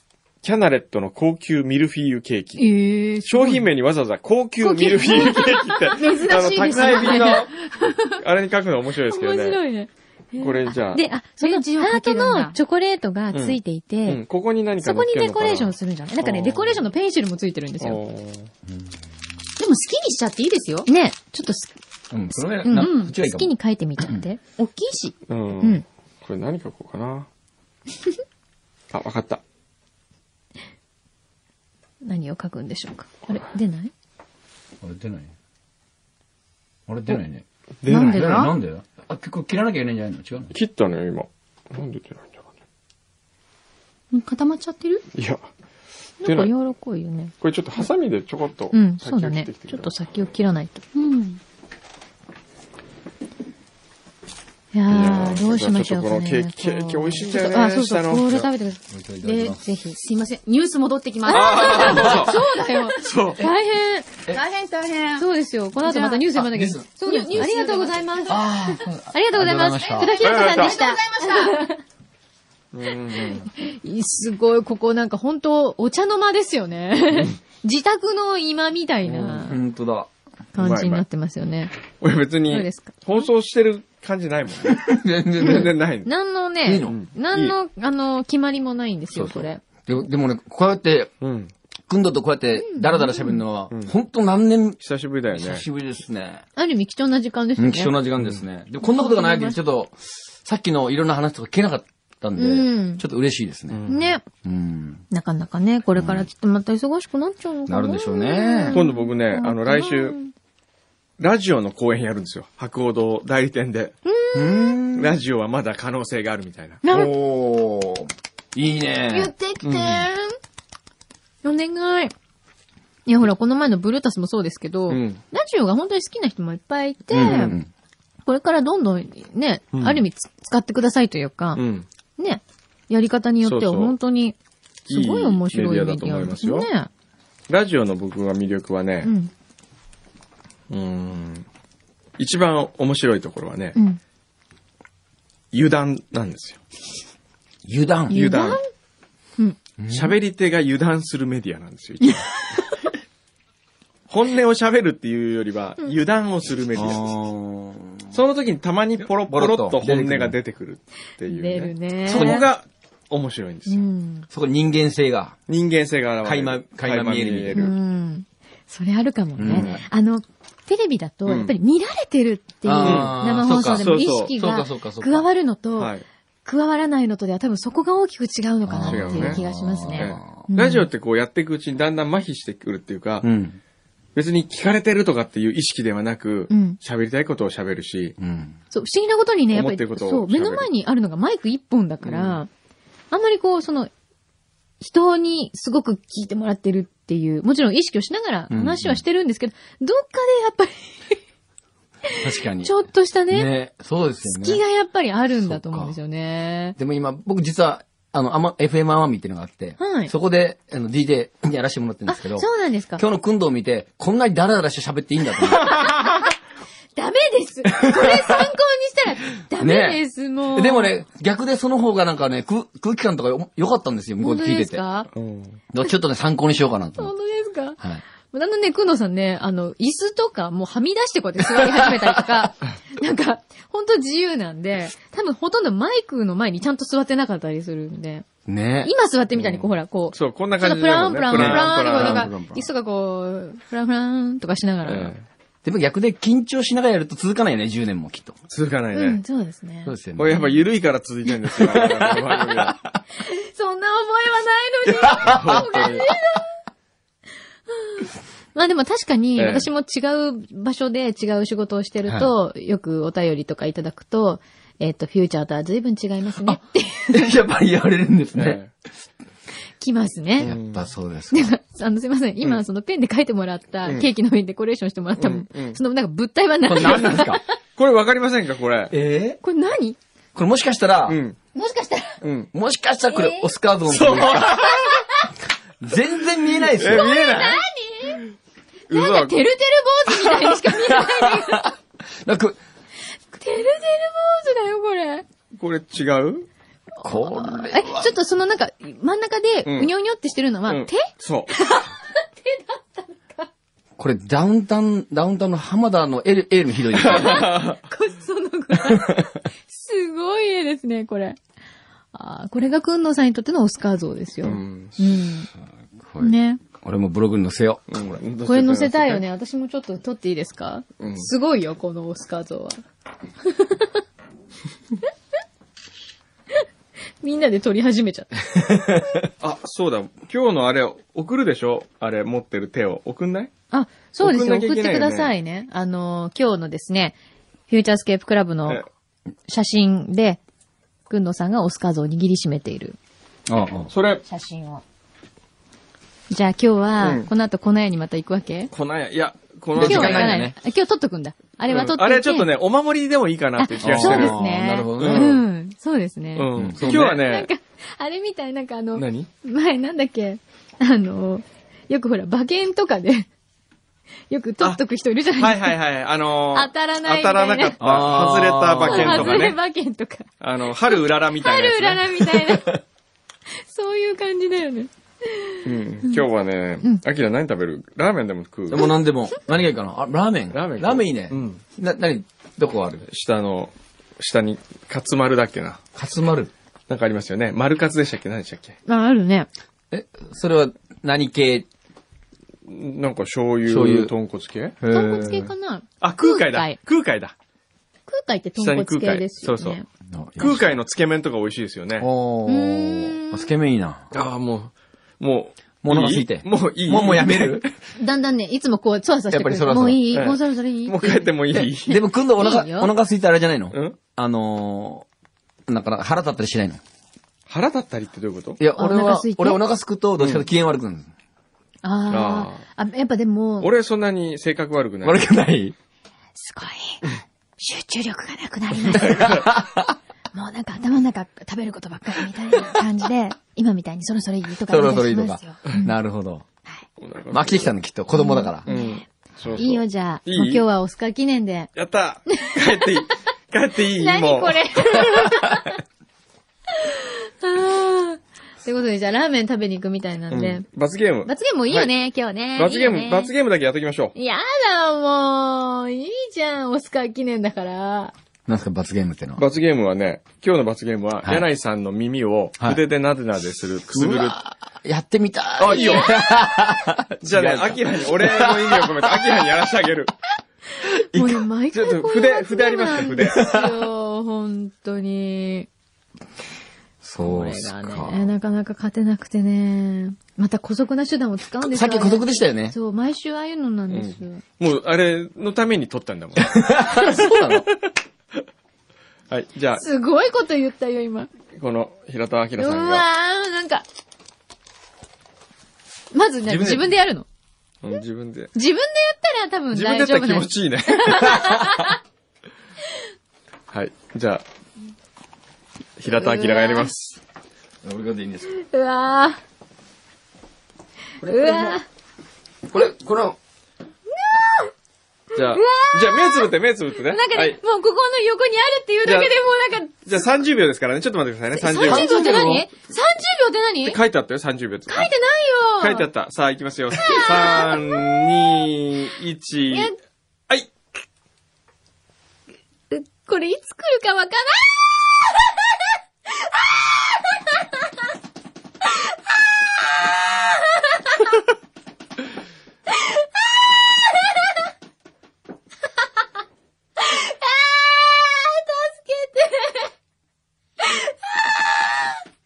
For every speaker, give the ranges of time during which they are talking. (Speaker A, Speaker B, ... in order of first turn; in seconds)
Speaker A: 0.4-2.7, 3.2-7.5, 8.2-9.6, 10.4-11.0, 13.3-16.9, 17.8-18.5, 25.3-27.3, 28.9-29.4, 37.8-38.3, 40.5-42.3, 45.1-45.5, 46.2-46.5, 47.4-50.0, 54.9-58.3, 61.3-62.4, 63.0-63.4, 70.2-70.8, 72.7-73.5, 79.1-79.5, 80.6-81.0, 82.0-86.1, 86.8-87.5, 91.2-91.5, 94.8-95.6, 103.7-104.2, 108.7-110.2, 111.2-114.0, 115.0-116.8, 119.6-120.1, 124.9-125.2, 129.7-130.0, 131.6-131.9, 133.4-134.0, 134.9-136.7, 137.5-139.1, 140.7-141.5, 142.2-143.8, 145.5-146.6, 148.1-148.6, 149.9-152.4, 154.1-157.1, 158.1-163.9, 165.5-167.8, 169.4-169.8, 171.3-171.6, 172.8-173.2, 173.7-174.3, 175.8-176.1, 178.8-179.4, 179.9-183.3, 184.2-188.2, 189.5-190.7, 225.1-225.6, 239.3-242.3, 244.8-245.2, 248.5-249.2, 250.2-252.8, 255.0-256.1, 259.4-259.7, 268.4-268.7, 270.4-270.9, 275.2-275.8, 276.9-277.2, 277.8-278.9, 281.1-281.4, 282.2-282.5, 283.9-285.0, 286.7-287.6, 288.9-289.4, 295.6-296.5, 299.6-299.9, 300.7-301.6, 307.0-307.8, 314.4-315.0, 317.9-319.2, 321.0-321.3, 329.4-333.5, 334.2-335.3, 343.9-344.2, 347.0-347.3, 348.7-350.4, 351.7-354.4, 355.0-355.4, 356.4-357.5, 358.9-359.3, 365.4-369.6, 370.4-372.3, 375.6-378.9, 380.5-381.6, 383.1-385.9, 386.9-388.8, 392.7-394.8, 396.0-397.3, 398.6-399.8, 400.4-402.1, 404.1-407.7, 410.1-412.0, 413.7-414.0, 417.5-418.6, 420.2-420.4, 422.1-422.6, 423.6-425.3, 428.9-429.5, 437.0-437.7, 438.7-440.7, 441.8-445.3, 450.3-451.9, 452.6-454.1, 459.4-464.4, 465.6-466.2, 467.2-470.1, 471.2-473.4, 483.9-487.6, 489.3-489.8, 491.5-493.0, 497.8-498.5, 499.7-501.6, 503.7-504.4, 506.0-507.2, 515.3-517.6, 519.0-519.4, 520.0-522.6, 523.9-525.1, 525.8-529.9
Speaker B: 2.6-3.7, 4.6-7.5, 9.1-14.2, 14.8-18.0, 20.9-21.7, 22.3-24.4, 32.0-33.9, 37.9-38.5, 46.2-47.3, 48.7-50.8, 54.7-58.8, 59.5-60.0, 61.3-64.1, 65.2-71.8, 73.3-79.6, 80.5-81.7, 82.5-83.0, 85.4-89.6, 92.6-93.4, 96.6-98.0, 98.8-99.6, 102.4-103.0, 103.9-104.2, 105.1-110.3, 114.0-114.8, 116.8-117.1, 119.1-120.4, 121.4-122.1, 123.1-127.6, 128.3-131.6, 132.2-134.3, 134.9-136.9, 139.0-139.3, 143.8-144.0, 148.1-148.6, 152.0-152.9, 161.3-162.5, 163.7-164.3, 167.5-175.9, 176.4-180.9, 186.5-186.8, 188.7-192.5, 193.1-193.9, 194.8-201.2, 202.2-203.5, 204.2-206.8, 209.8-210.1, 212.1-213.0, 215.4-216.3, 217.0-221.0, 224.2-225.1, 227.0-227.8, 228.3-238.3, 238.8-245.1, 248.9-249.9, 253.2-256.5, 257.8-267.3, 269.8-270.6, 271.3-277.4, 279.4-280.0, 281.6-282.2, 283.1-283.5, 284.9-285.3, 286.9-288.2, 288.9-291.7, 293.3-295.2, 297.0-303.5, 307.0-311.4, 312.1-315.5, 316.2-316.6, 318.5-322.8, 323.4-324.0, 327.2-328.4, 333.7-337.2, 337.7-338.8, 339.5-340.4, 341.1-343.0, 344.3-344.8, 346.3-348.7, 349.8-352.5, 353.6-363.3, 364.3-365.8, 366.5-367.8, 368.8-370.3, 370.8-372.8, 373.5-376.3, 388.9-389.5, 394.9-396.8, 398.1-399.9, 402.5-403.5, 408.0-411.3, 412.4-412.9, 418.8-419.6, 421.8-423.7, 426.4-427.0, 427.6-429.3, 430.3-436.0, 438.1-441.7, 443.8-445.8, 446.7-450.6, 451.3-453.3, 454.1-458.1, 465.7-466.2, 470.8-475.7, 477.2-484.4, 489.8-491.3, 492.6-493.8, 496.1-497.3, 498.6-501.9, 506.1-506.9, 508.5-509.4, 511.2-511.9, 514.1-514.7, 515.4-516.5, 517.1-520.0, 521.5-524.0, 524.9-526.1, 527.0-528.0, 532.9-535.0, 536.8-537.6, 540.0-541.3, 543.0-543.3, 543.9-544.3, 547.0-549.9, 550.8-552.0
Speaker C: 6.0-8.2, 11.4-12.6, 19.6-20.9, 22.7-23.1, 24.6-25.1, 38.2-38.4, 44.1-45.0, 51.0-51.4, 59.2-62.9, 64.3-65.3, 65.8-66.3, 67.0-68.5, 70.0-71.7
Speaker D: 18.7-18.9, 22.1-24.3, 34.8-35.3, 36.9-40.5, 58.3-59.6, 61.8-62.3, 66.3-67.5, 68.3-70.2, 79.2-80.1, 84.7-85.8, 86.7-87.0, 89.2-91.1, 91.9-94.8, 95.3-96.5, 97.6-105.0, 106.0-106.3, 107.7-108.8, 114.3-115.2, 116.9-119.3, 127.1-127.7, 147.7-148.4, 149.8-150.2, 156.7-158.1, 159.3-160.3, 162.1-162.5, 164.3-165.3, 166.2-167.7, 169.4-169.8, 172.6-175.3, 178.7-180.5, 183.2-183.6, 188.2-188.6, 198.5-199.0, 202.2-202.7, 203.3-204.6, 205.3-206.0, 206.8-215.7, 217.7-218.5, 219.6-224.8, 225.7-227.1, 238.5-238.9, 241.3-242.7, 245.6-248.4, 249.8-250.6, 251.4-253.0, 255.2-255.6, 266.4-268.6, 270.4-271.5, 276.6-277.4, 278.9-279.4, 280.4-281.2, 282.5-284.8, 285.8-287.1, 290.7-292.6, 297.0-298.1, 304.0-307.5, 316.0-317.9, 328.7-329.2, 343.5-343.9, 349.8-350.6, 353.8-355.3, 356.6-357.2, 367.8-369.6, 378.7-383.1, 385.9-386.5, 389.9-391.7, 393.7-394.1, 394.8-395.5, 400.1-400.7, 402.0-404.1, 405.8-407.7, 409.3-410.1, 411.5-415.1, 415.7-416.8, 418.6-421.1, 425.0-425.8, 428.9-430.0, 434.7-436.4, 437.3-438.7, 458.5-459.4, 463.9-469.4, 473.2-473.8, 477.0-478.2, 481.6-482.8, 486.4-487.7, 496.5-496.9, 507.8-508.5, 511.2-511.8, 512.7-513.4, 521.8-522.7